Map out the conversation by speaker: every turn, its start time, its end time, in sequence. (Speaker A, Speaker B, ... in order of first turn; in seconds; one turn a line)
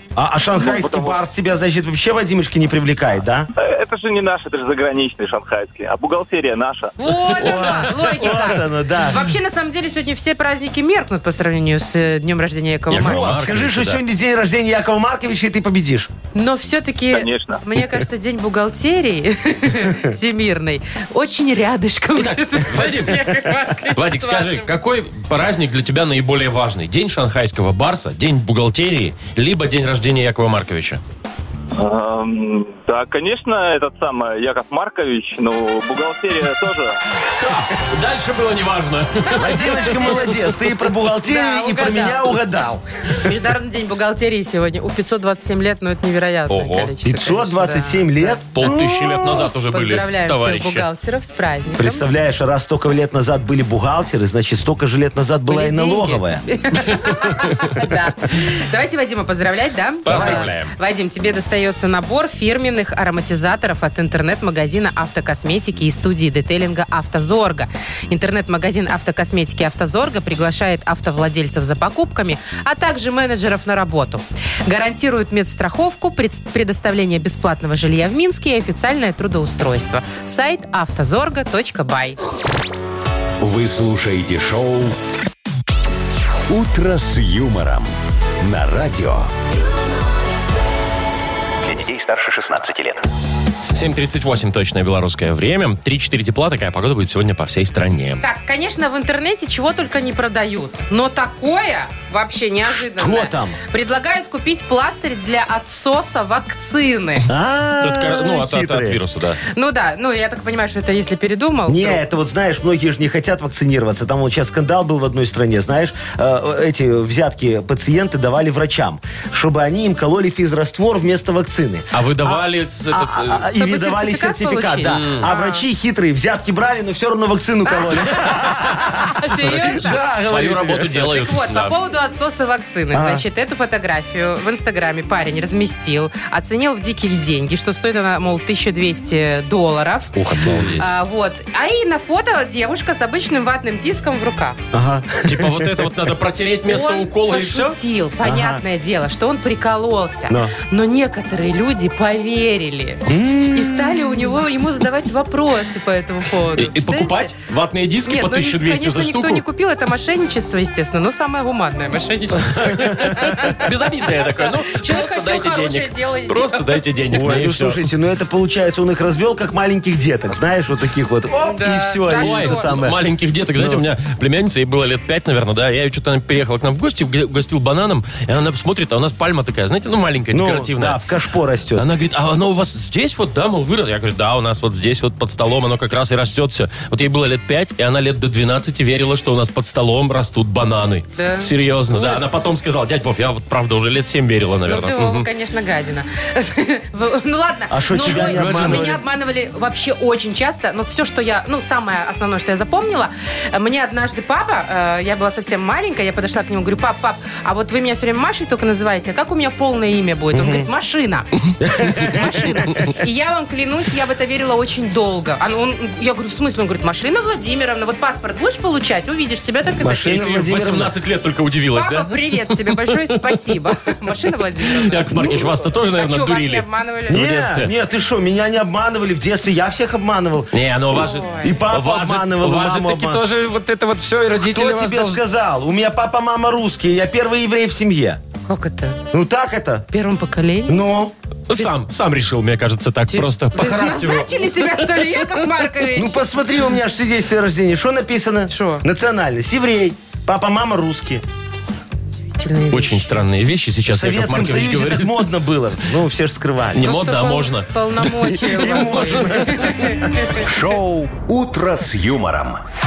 Speaker A: 0.2-3.5
Speaker B: 0.6-1.2
Speaker B: 3.6-6.9
Speaker C: 7.0-13.3
Speaker A: 7.4-9.3
Speaker D: 12.9-14.0
Speaker A: 12.9-16.1
Speaker C: 16.4-24.7
Speaker B: 17.1-17.6
Speaker D: 22.2-31.0
Speaker B: 31.8-37.0
Speaker D: 37.3-40.3
Speaker A: 39.4-43.1
Speaker C: 41.3-42.3
Speaker C: 43.2-49.0
Speaker D: 46.5-46.9
Speaker A: 47.0-49.4
Speaker D: 48.5-50.9
Speaker C: 49.6-52.1
Speaker A: 51.8-56.4
Speaker C: 55.5-82.2
Speaker D: 60.1-60.7
Speaker A: 60.1-60.5
Speaker E: 83.4-85.0
Speaker E: 86.5-89.3
Speaker E: 91.6-93.1
Speaker D: 93.7-98.2
Speaker C: 98.2-107.3
Speaker A: 102.7-103.6
Speaker A: 107.3-109.0
Speaker D: 107.8-109.4
Speaker C: 109.5-112.0
Speaker A: 111.7-131.1
Speaker D: 121.9-123.5
Speaker C: 123.5-125.7
Speaker D: 124.8-125.3
Speaker C: 127.7-130.0
Speaker D: 129.5-131.8
Speaker C: 130.9-144.6
Speaker A: 132.9-133.2
Speaker D: 140.2-140.9
Speaker A: 144.7-145.9
Speaker D: 145.2-147.8
Speaker C: 146.7-157.3
Speaker A: 148.2-148.6
Speaker A: 150.3-150.6
Speaker A: 153.1-154.3
Speaker D: 156.6-159.4
Speaker C: 158.1-167.0
Speaker D: 162.4-167.9
Speaker A: 167.1-173.0
Speaker C: 171.4-172.7
Speaker D: 172.1-181.0
Speaker A: 173.6-173.8
Speaker A: 180.3-181.9
Speaker D: 181.8-195.3
Speaker C: 191.2-192.2
Speaker C: 194.7-211.3
Speaker A: 197.7-199.0
Speaker D: 198.0-199.0
Speaker A: 210.3-210.7
Speaker A: 211.6-212.8
Speaker C: 211.8-220.4
Speaker A: 219.8-220.9
Speaker D: 219.9-223.6
Speaker C: 221.7-227.2
Speaker D: 224.7-227.7
Speaker A: 227.1-230.5
Speaker D: 230.5-235.2
Speaker C: 230.9-231.6
Speaker A: 231.4-233.2
Speaker A: 234.4-238.2
Speaker C: 238.5-239.0
Speaker A: 239.1-239.9
Speaker C: 239.9-240.9
Speaker A: 240.7-241.1
Speaker D: 241.5-245.4
Speaker C: 243.1-246.2
Speaker A: 245.9-251.2
Speaker C: 248.5-248.8
Speaker C: 252.4-253.1
Speaker D: 252.7-255.3
Speaker A: 253.9-256.9
Speaker D: 256.7-259.2
Speaker C: 256.8-260.4
Speaker A: 258.5-260.1
Speaker E: 260.4-262.6